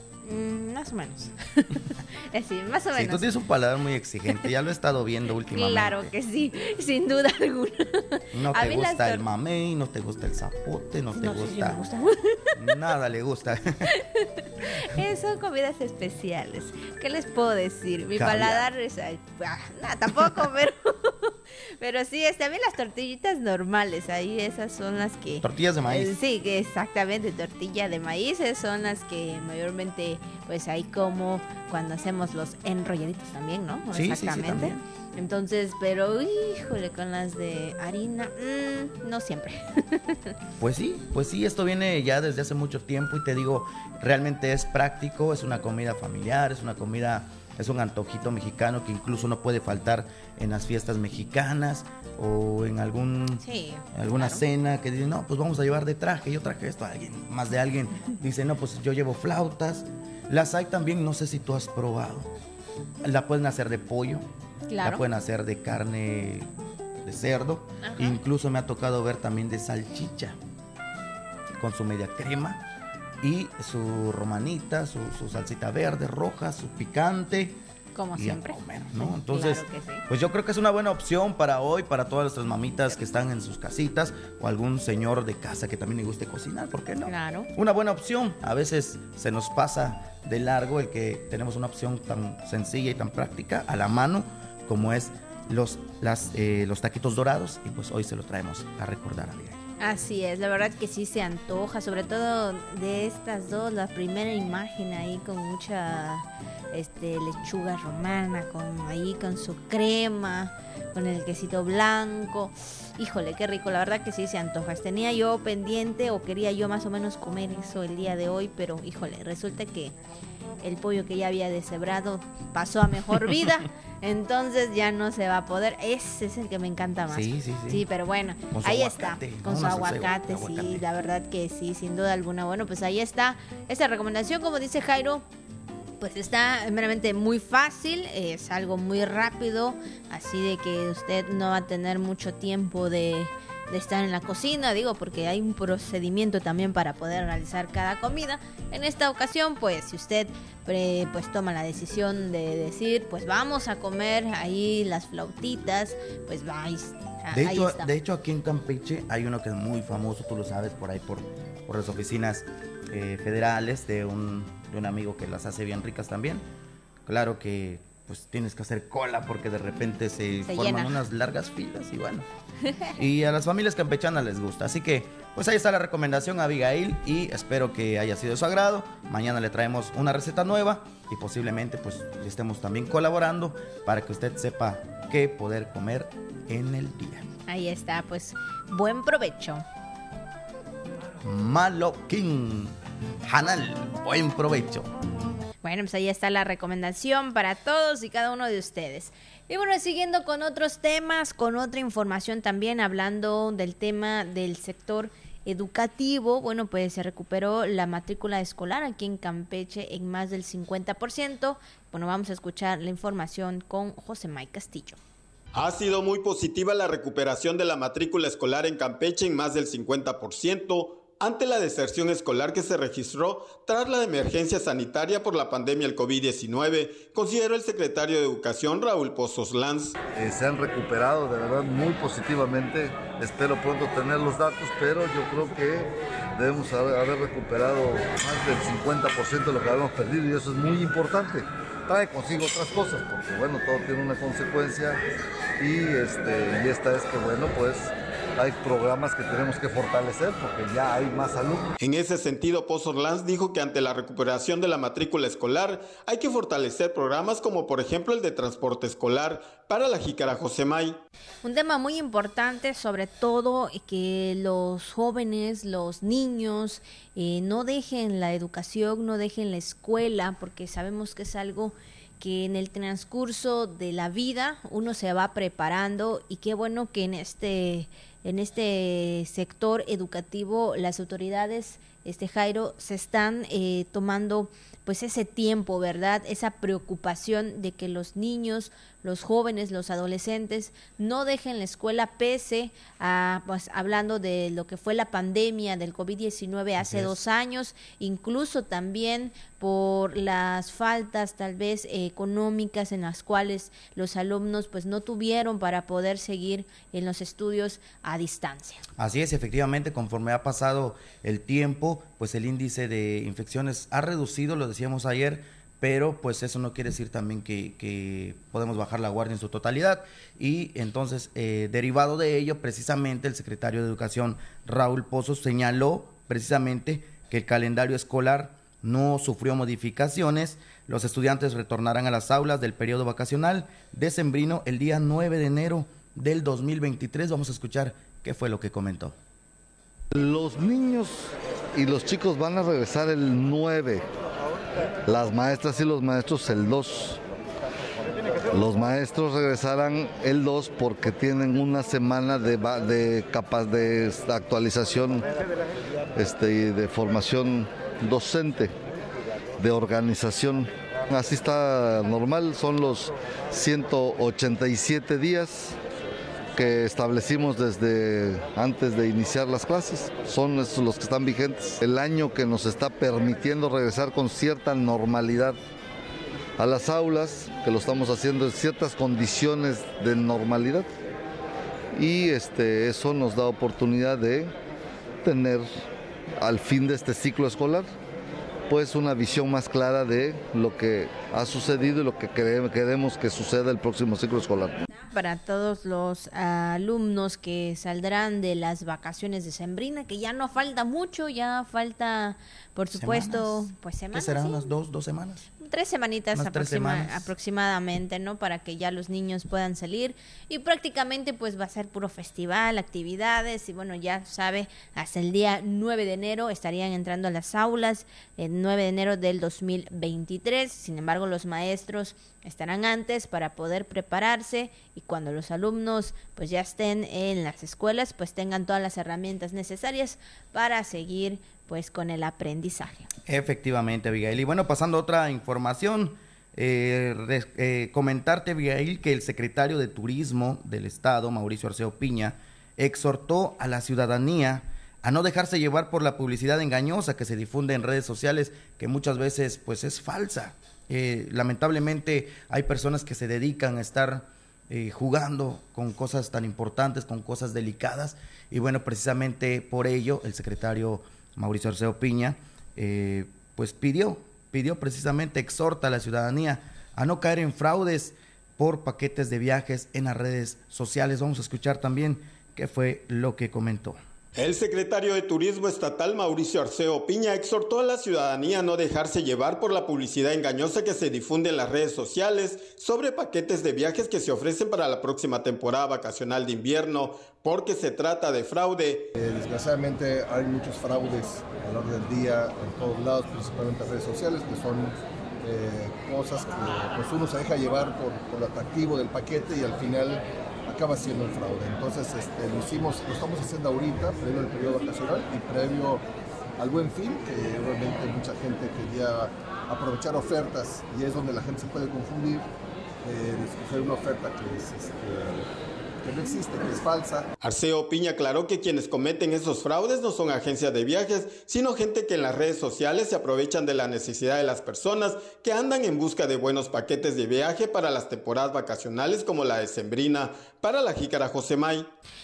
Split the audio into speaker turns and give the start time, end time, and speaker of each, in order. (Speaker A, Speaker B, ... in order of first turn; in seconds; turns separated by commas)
Speaker A: 0.2-3.3, Speaker B: 2.9-6.1, Speaker A: 5.5-9.2, Speaker B: 8.3-11.8, Speaker A: 11.1-12.5, Speaker B: 12.5-13.9, Speaker A: 13.9-40.3, Speaker B: 18.1-18.7, Speaker B: 25.4-26.1, Speaker B: 33.9-34.8, Speaker B: 40.6-62.3, Speaker A: 53.4-54.4, Speaker B: 63.0-64.2, Speaker A: 64.7-65.0, Speaker B: 64.8-66.5, Speaker B: 67.0-70.4, Speaker A: 67.8-68.2, Speaker B: 71.5-72.6, Speaker B: 73.2-77.6, Speaker A: 77.9-80.0, Speaker B: 78.1-99.6, Speaker A: 87.0-87.5, Speaker A: 99.8-119.9, Speaker A: 120.6-135.2, Speaker B: 127.1-127.8, Speaker B: 128.5-130.8, Speaker A: 136.0-157.9, Speaker B: 157.3-166.4, Speaker B: 167.1-172.3, Speaker A: 170.4-171.0, Speaker B: 172.9-187.3, Speaker A: 187.5-189.6, Speaker B: 191.2-194.9, Speaker A: 195.6-215.0, Speaker C: 215.5-230.0, Speaker D: 230.1-245.0, Speaker D: 245.6-251.7, Speaker C: 251.8-261.0, Speaker A: 261.4-308.8, Speaker B: 296.8-297.1, Speaker B: 309.0-339.2, Speaker D: 340.1-344.0, Speaker D: 345.1-347.2, Speaker D: 348.5-355.3, Speaker D: 356.1-358.7, Speaker D: 359.6-365.8, Speaker D: 366.5-375.6, Speaker D: 376.6-380.9, Speaker D: 381.9-384.5, Speaker D: 385.2-385.7, Speaker D: 386.4-387.9, Speaker D: 388.7-394.8, Speaker A: 395.0-404.6, Speaker B: 402.9-405.5, Speaker A: 405.6-433.1, Speaker B: 406.3-407.3, Speaker B: 433.3-474.0, Speaker C: 474.3-489.1, Speaker E: 489.1-506.0, Speaker E: 506.6-512.5, Speaker E: 513.0-515.5, Speaker E: 516.0-517.3, Speaker C: 517.4-531.9